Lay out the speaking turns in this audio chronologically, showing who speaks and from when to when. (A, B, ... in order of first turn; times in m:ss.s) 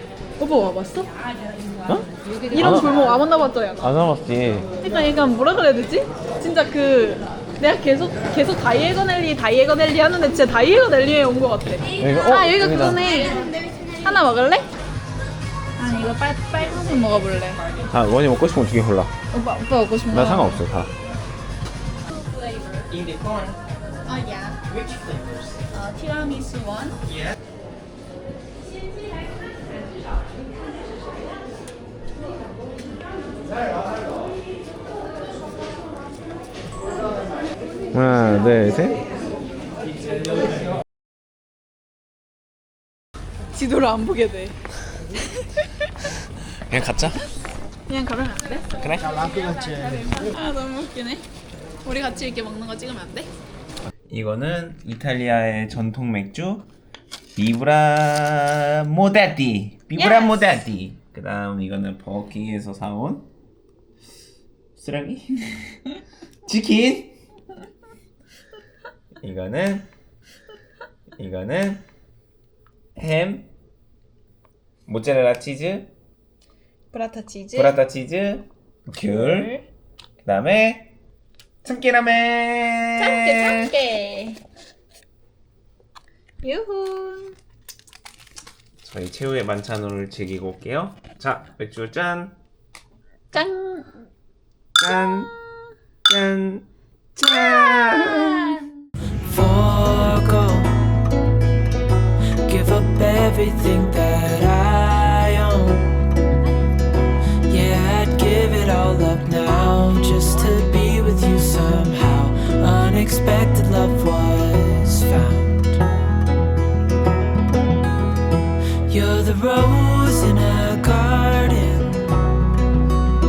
0:00.4-0:01.1 A
0:01.9-0:02.9 B
0:02.4-0:03.9 A
0:03.8-0:04.7 B
0:04.8-0:14.7 A
0:12.0-0:13.1 B
0:15.8-0:17.6 A
0:17.9-0:19.1 B
0:19.3-0:20.6 A
0:20.1-0:20.9 B
0:24.0-0:24.6 A
0:25.7-0:27.0 A
0:37.9-0:39.0 B
0:43.5-0:44.6 A
0:46.7-0:47.2 B
0:47.9-0:48.7 A
0:48.8-0:49.1 B
0:49.3-0:51.2 A
0:51.8-0:53.3 A
0:54.1-0:56.7 B
0:57.4-1:03.3 B
1:00.0-1:00.6 A
1:04.8-1:05.8 B
1:06.4-1:07.2 B
1:09.2-1:09.9 B
1:11.2-1:11.8 B
1:13.0-1:13.5 B
1:14.9-1:15.9 B
1:16.9-1:17.8 A
1:17.5-1:19.5 B
1:19.1-1:19.6 A
1:20.2-1:20.9 B
1:21.6-1:23.7 B
1:23.0-1:24.4 A
1:26.4-1:27.3 A
1:28.8-1:32.3 B
1:33.3-1:33.9 A
1:34.8-1:35.3 B
1:34.8-1:35.3 A
1:36.1-1:36.6 B
1:37.2-1:38.6 B
1:37.2-1:38.7 A
1:39.2-1:40.9 C
1:42.4-1:46.0 C
1:47.4-1:55.8 C
1:58.9-2:02.2 C